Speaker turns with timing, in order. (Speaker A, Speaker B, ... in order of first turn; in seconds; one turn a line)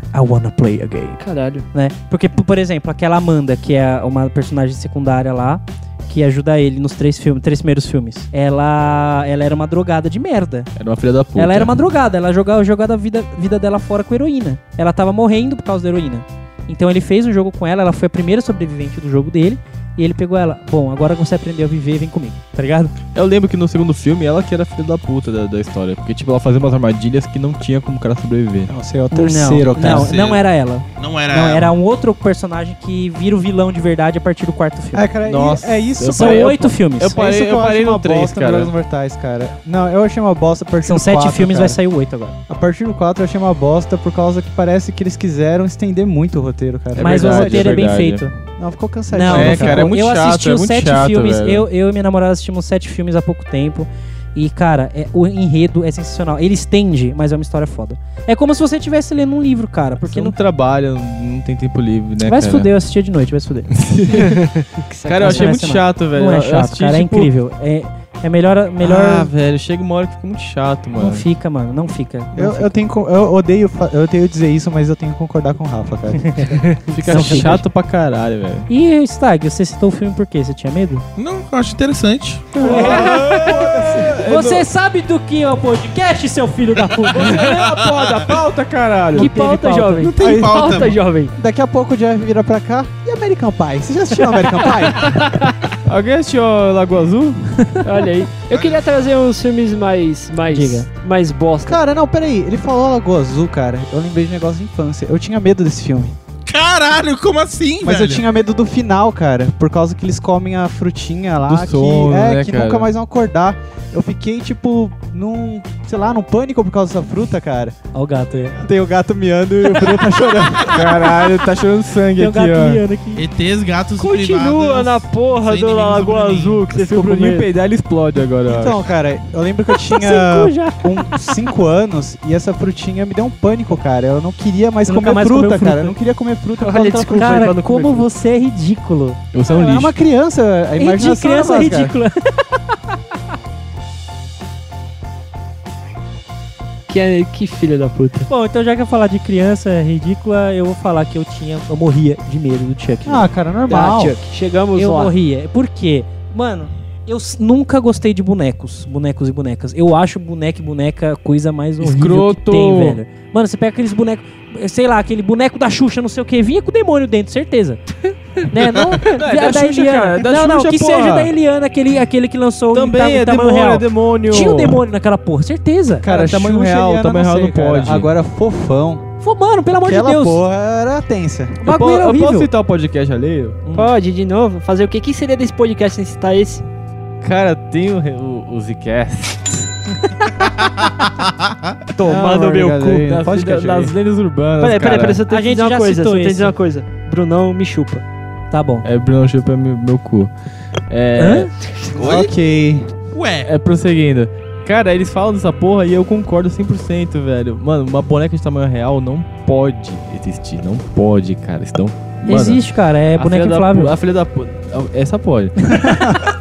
Speaker A: 0.1-1.2
Speaker B: 1.2-1.7
Speaker A: 1.7-10.7
Speaker C: 10.8-11.7
Speaker A: 11.4-22.9
Speaker C: 23.1-28.7
Speaker D: 28.7-30.2
Speaker A: 29.1-35.1
Speaker E: 29.8-31.7
Speaker D: 34.9-41.8
Speaker C: 35.2-38.7
Speaker A: 36.1-37.2
Speaker A: 40.8-42.4
Speaker D: 42.5-48.0
Speaker C: 47.0-48.3
Speaker A: 47.0-48.4
Speaker D: 48.6-49.9
Speaker A: 49.1-60.4
Speaker C: 49.3-51.7
Speaker C: 60.0-62.7
Speaker A: 62.2-63.7
Speaker C: 63.7-64.4
Speaker B: 64.1-65.6
Speaker C: 65.1-67.3
Speaker A: 65.2-69.3
Speaker C: 68.8-71.3
Speaker A: 71.0-72.7
Speaker D: 72.3-77.5
Speaker C: 76.9-78.7
Speaker A: 77.1-77.6
Speaker A: 78.7-81.0
Speaker E: 81.2-82.6
Speaker D: 82.5-84.2
Speaker C: 82.6-84.7
Speaker A: 82.6-87.6
Speaker C: 87.1-89.3
Speaker E: 87.6-88.2
Speaker B: 89.1-91.3
Speaker A: 89.1-90.1
Speaker D: 90.0-95.3
Speaker E: 90.2-91.0
Speaker C: 95.8-97.6
Speaker B: 97.8-101.8
Speaker A: 100.5-100.9
Speaker D: 101.7-106.2
Speaker E: 106.5-108.2
Speaker D: 107.8-117.8
Speaker C: 111.5-112.9
Speaker A: 117.9-118.6
Speaker D: 118.6-120.9
Speaker C: 120.7-122.8
Speaker A: 122.2-123.3
Speaker E: 123.2-126.7
Speaker B: 124.0-127.5
Speaker C: 126.7-128.8
Speaker D: 128.5-137.5
Speaker A: 129.7-131.4
Speaker A: 134.9-136.0
Speaker B: 136.6-138.1
Speaker A: 137.1-139.8
Speaker C: 139.3-139.9
Speaker D: 139.5-142.0
Speaker A: 140.8-142.8
Speaker B: 146.9-148.3
Speaker A: 148.3-153.3
Speaker D: 153.1-154.2
Speaker B: 153.7-155.1
Speaker A: 154.8-167.8
Speaker C: 161.8-163.0
Speaker A: 168.5-176.1
Speaker C: 168.9-171.3
Speaker C: 172.7-174.8
Speaker D: 176.0-179.1
Speaker C: 176.1-178.1
Speaker A: 179.2-180.4
Speaker D: 179.9-181.6
Speaker A: 181.6-182.5
Speaker C: 181.6-183.6
Speaker A: 183.7-183.9
Speaker B: 183.7-186.7
Speaker C: 187.2-189.7
Speaker E: 190.8-191.8
Speaker B: 191.9-193.0
Speaker D: 192.0-193.9
Speaker C: 193.0-195.2
Speaker B: 194.6-198.0
Speaker A: 195.3-196.5
Speaker A: 198.5-198.9
Speaker C: 198.8-200.3
Speaker C: 200.9-201.5
Speaker A: 201.2-201.5
Speaker E: 202.0-202.3
Speaker D: 202.0-202.9
Speaker E: 203.1-203.5
Speaker C: 203.4-212.6
Speaker A: 212.3-213.9
Speaker C: 213.2-216.2